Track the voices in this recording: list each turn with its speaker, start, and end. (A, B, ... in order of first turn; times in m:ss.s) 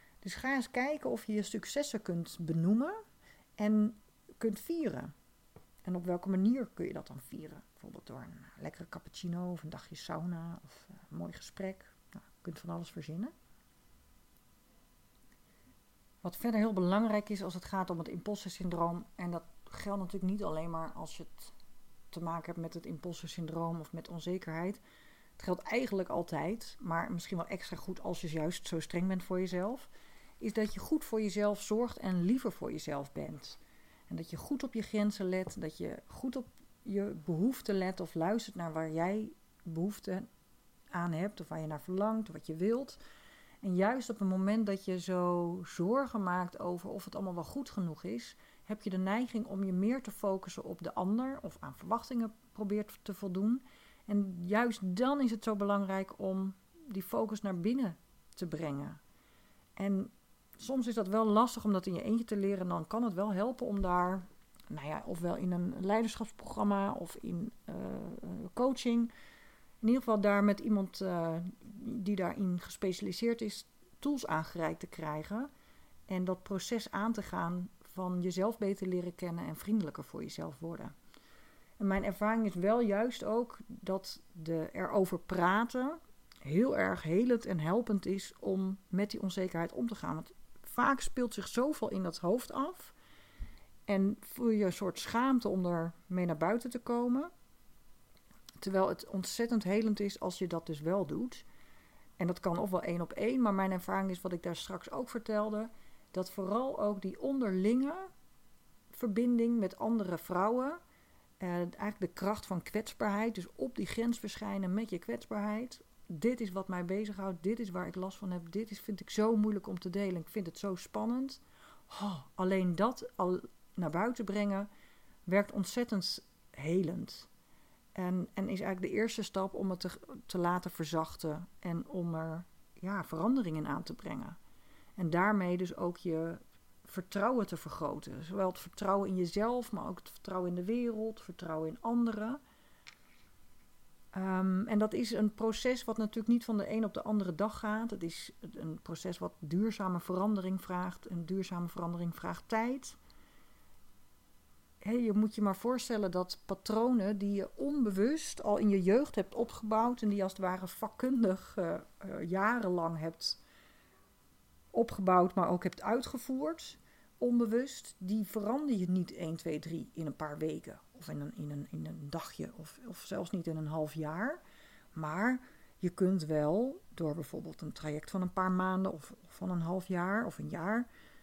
0:00.2-0:03.0 A
0:03.6-0:05.1 A
0:05.8-0:13.3 A
0:16.2-0:21.6 A
0:22.1-0:24.8 A
0:25.4-0:40.3 A
0:40.9-0:43.0 A
0:43.6-0:59.0 A
0:59.8-1:09.1 A
1:09.8-1:15.5 A
1:16.1-1:21.0 A
1:21.8-1:33.0 A
1:33.9-1:37.3 A
1:38.6-1:41.4 A
1:42.2-1:48.1 A
1:48.9-1:50.8 A
1:51.4-2:04.7 A
2:05.3-2:07.3 A
2:08.0-2:14.4 A
2:15.0-2:22.4 A
2:24.1-2:33.0 A
2:34.8-2:43.4 A
2:44.7-2:54.4 A
2:55.0-3:00.9 A